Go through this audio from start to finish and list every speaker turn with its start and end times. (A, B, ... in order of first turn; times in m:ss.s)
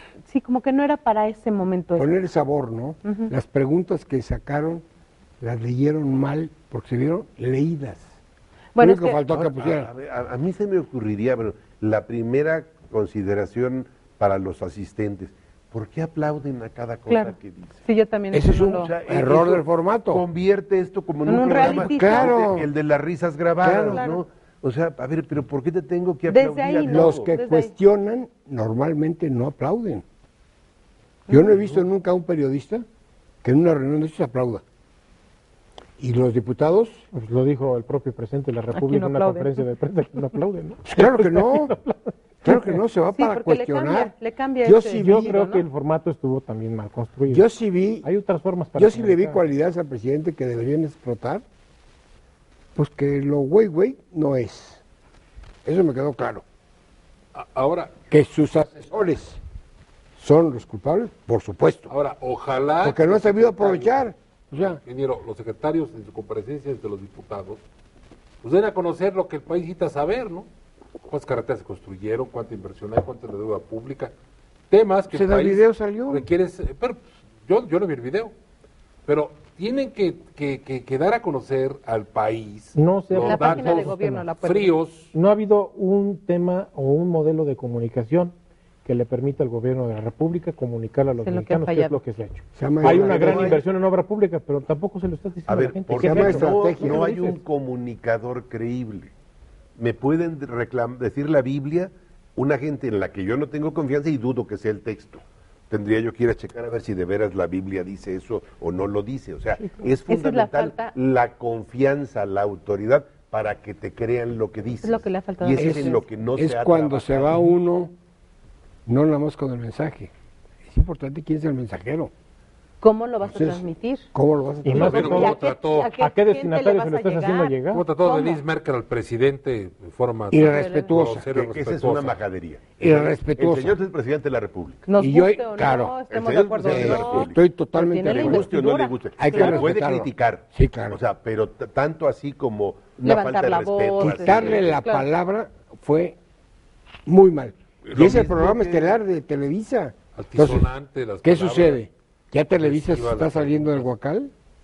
0:00.3-0:02.1 A
0:02.0-0:04.8 B
0:03.0-0:03.3 A
0:05.4-0:08.1 B
0:08.7-0:09.2 A
0:08.8-0:09.9 B
0:09.3-0:17.8 C
0:17.1-0:18.9 A
0:18.3-0:20.2 B
0:18.5-0:27.4 C
0:21.2-0:22.5 A
0:21.4-0:22.7 B
0:23.6-0:24.0 B
0:23.8-0:24.2 A
0:26.2-0:27.7 A
0:26.8-0:30.0 B
0:31.3-0:31.5 A
0:31.3-0:32.8 B
0:33.4-0:34.6 B
0:36.0-0:37.0 B
0:37.1-0:42.8 D
0:38.7-0:39.6 A
0:40.8-0:41.7 B
0:42.4-0:44.1 B
0:43.1-0:45.6 A
0:44.6-0:45.4 B
0:45.0-0:47.5 D
0:47.3-0:48.1 B
0:48.0-0:49.4 D
0:48.8-0:51.4 B
0:52.8-0:54.8 B
0:55.6-0:56.4 B
0:57.3-0:57.9 E
0:58.1-0:59.4 B
1:00.2-1:01.9 B
1:01.9-1:04.0 E
1:02.8-1:04.8 B
1:04.6-1:07.6 E
1:08.4-1:10.5 E
1:11.1-1:14.1 E
1:14.7-1:18.3 E
1:15.1-1:16.3 B
1:19.0-1:25.1 E
1:22.7-1:24.3 D
1:23.2-1:24.8 A
1:25.1-1:37.4 D
1:31.2-1:32.0 A
1:32.5-1:33.6 B
1:32.8-1:33.6 C
1:35.5-1:39.1 C
1:35.9-1:37.0 B
1:39.8-1:57.4 C
1:50.0-1:51.0 A
1:54.8-1:56.0 A
1:55.5-1:57.9 B
1:58.8-2:00.1 B
2:00.6-2:02.1 B
2:02.8-2:04.0 A
2:03.2-2:05.2 B
2:04.6-2:05.4 D
2:04.7-2:05.9 E
2:05.0-2:08.4 A
2:05.9-2:07.8 D
2:07.7-2:12.2 E
2:10.3-2:11.3 B
2:10.4-2:11.0 A
2:11.2-2:14.8 C
2:12.8-2:13.8 B
2:14.8-2:19.7 A
2:15.0-2:16.0 B
2:16.1-2:17.4 C
2:16.6-2:18.5 B
2:18.1-2:24.8 C
2:19.2-2:21.0 B
2:23.0-2:25.1 A
2:24.0-2:26.2 B
2:27.0-2:30.7 B
2:27.9-2:29.0 C
2:30.1-2:31.8 E
2:31.2-2:34.3 B
2:32.5-2:33.9 E